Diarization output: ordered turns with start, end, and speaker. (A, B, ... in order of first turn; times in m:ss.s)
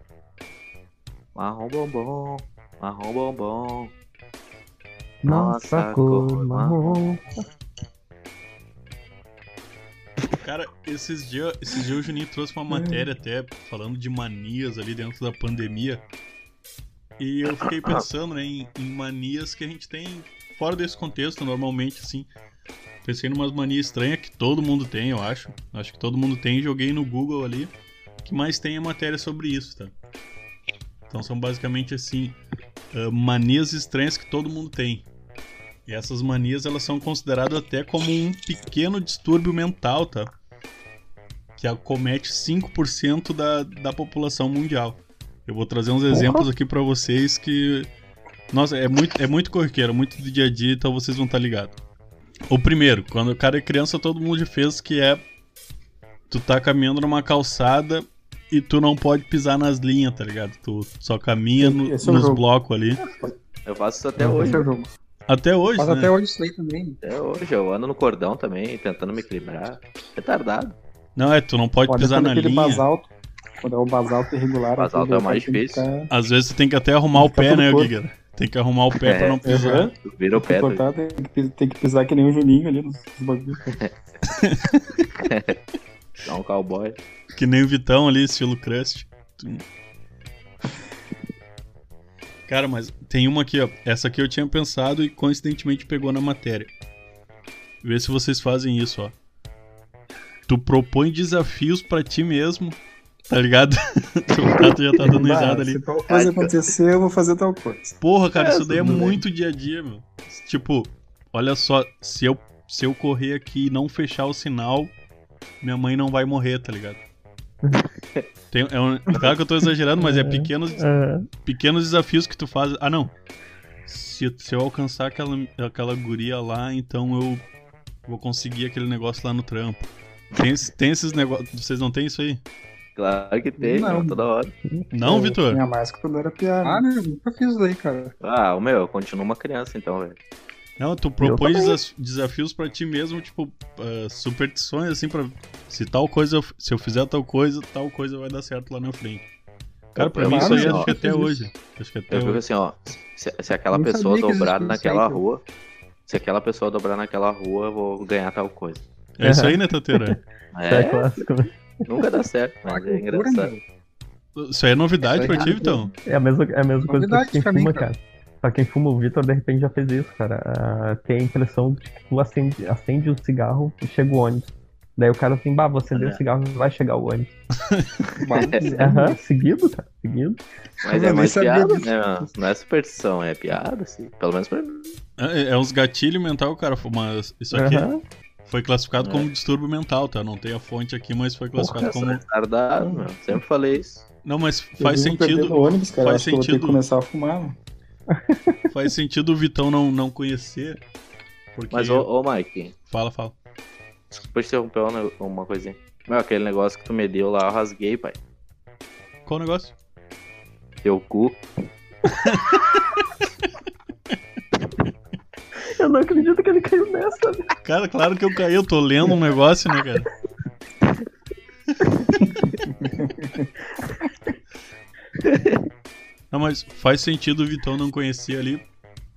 0:01.4-0:03.9 A
0:05.2-0:07.3 B
0:05.2-0:07.0 A
0:10.4-0:16.0 C
0:12.7-0:13.0 D
0:17.2-0:22.3 C
0:23.0-0:27.7 C
0:28.2-0:29.9 C
0:31.1-0:32.4 C
0:32.9-0:35.1 C
0:35.9-0:40.3 C
0:41.6-0:47.9 C
0:46.1-0:46.5 B
0:48.5-0:51.8 C
0:52.5-0:55.2 C
0:56.3-1:03.0 C
1:01.6-1:02.4 D
1:03.6-1:04.6 A
1:04.2-1:04.9 D
1:05.3-1:06.1 C
1:05.8-1:07.0 E
1:07.0-1:10.8 A
1:11.2-1:12.9 C
1:11.9-1:13.1 D
1:13.6-1:16.1 D
1:14.8-1:15.9 A
1:16.1-1:19.9 C
1:17.1-1:17.9 D
1:19.0-1:20.8 A
1:19.4-1:23.6 D
1:24.3-1:24.8 C
1:25.2-1:25.6 A
1:26.2-1:27.0 A
1:27.4-1:29.6 C
1:32.5-1:36.7 C
1:37.8-1:39.1 C
1:40.5-1:42.8 C
1:43.3-1:45.8 C
1:45.0-1:48.0 D
1:46.1-1:46.6 A
1:48.0-1:54.9 C
1:48.4-1:49.1 A
1:48.7-1:49.2 D
1:55.6-1:57.0 C
1:58.5-2:00.8 C
2:00.0-2:01.3 B
2:01.4-2:03.1 C
2:03.9-2:07.4 C
2:08.1-2:12.4 C
2:13.0-2:14.5 A
2:13.6-2:14.2 D
2:14.9-2:15.6 C
2:15.0-2:16.9 D
2:16.6-2:18.1 E
2:18.2-2:20.2 A
2:20.8-2:29.2 C
2:21.2-2:21.8 B
2:30.0-2:32.4 C
2:30.0-2:30.9 A
2:30.2-2:31.3 D
2:32.1-2:35.4 A
2:33.7-2:35.2 E
2:36.1-2:38.8 A
2:39.2-2:40.2 C
2:39.2-2:40.2 B
2:40.5-2:41.2 A
2:40.7-2:41.5 B
2:41.8-2:43.5 A
2:42.7-2:43.6 E
2:44.4-2:45.9 C
2:45.0-2:45.8 E
2:46.0-2:57.3 B
2:46.9-2:47.9 E
2:55.9-2:56.2 A
2:58.2-2:58.9 E
2:58.3-2:58.7 A
2:58.6-2:59.2 D
2:58.8-3:00.4 B
3:00.8-3:05.0 A
3:00.9-3:01.9 E
3:05.2-3:07.9 C
3:07.5-3:08.0 B
3:08.4-3:12.2 C
3:09.0-3:09.3 A
3:11.6-3:11.9 B
3:11.8-3:14.0 A
3:14.2-3:16.8 C
3:14.8-3:17.6 D
3:18.1-3:18.6 B
3:18.7-3:20.8 C
3:21.6-3:22.1 C
3:21.7-3:22.7 A
3:22.9-3:23.4 C
3:24.1-3:28.2 A
3:29.3-3:29.7 C
3:30.8-3:31.4 A
3:32.2-3:32.6 C
3:35.8-3:37.5 B
3:37.6-3:40.1 C
3:43.0-3:43.4 D
3:45.2-3:45.6 A
3:46.3-3:48.6 C